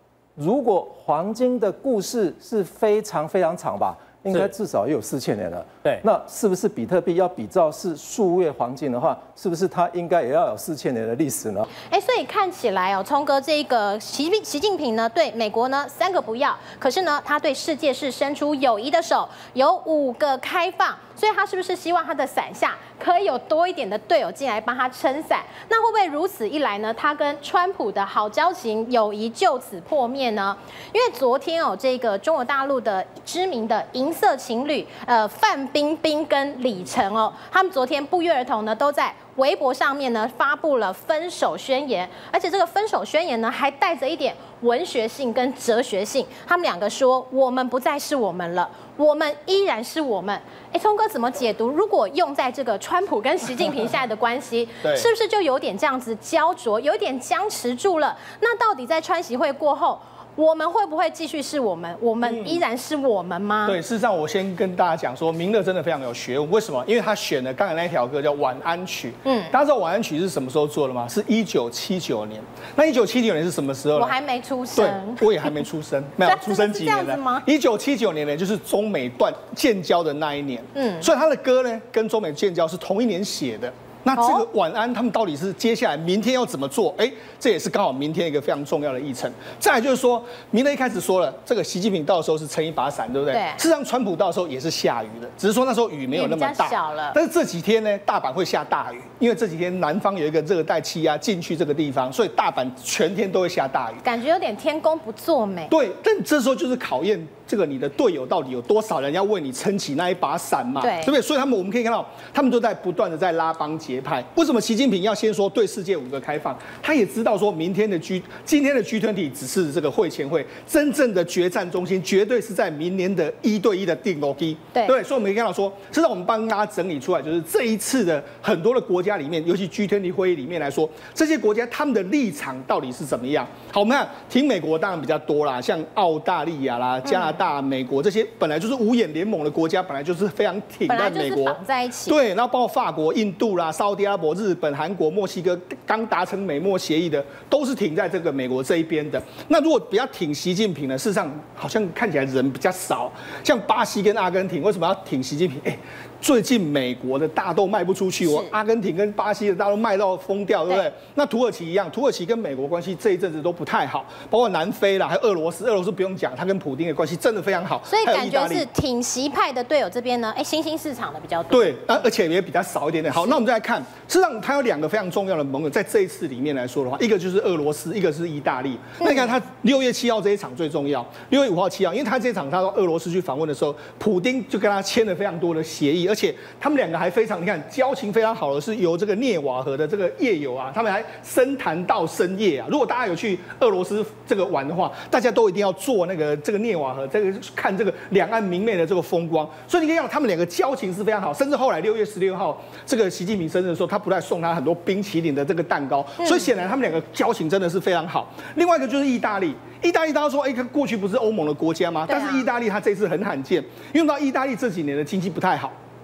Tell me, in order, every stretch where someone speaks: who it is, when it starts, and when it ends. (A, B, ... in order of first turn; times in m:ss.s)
0:00.4-0:11.7 A
0:11.8-1:03.8 B
0:54.8-0:55.1 C
1:02.2-1:02.6 C
1:03.6-1:14.2 C
1:09.2-1:09.5 B
1:14.0-1:15.6 B
1:14.7-1:44.0 C
1:16.2-1:17.4 B
1:20.7-1:21.1 B
1:24.2-1:24.4 B
1:33.3-1:33.6 B
1:36.1-1:37.2 B
1:44.0-1:45.7 B
1:45.7-2:48.6 C
1:50.8-1:51.1 B
2:17.1-2:17.4 B
2:20.9-2:22.2 B
2:47.9-2:52.0 B
2:51.5-3:35.7 C
3:26.2-3:26.5 B
3:32.1-3:32.4 B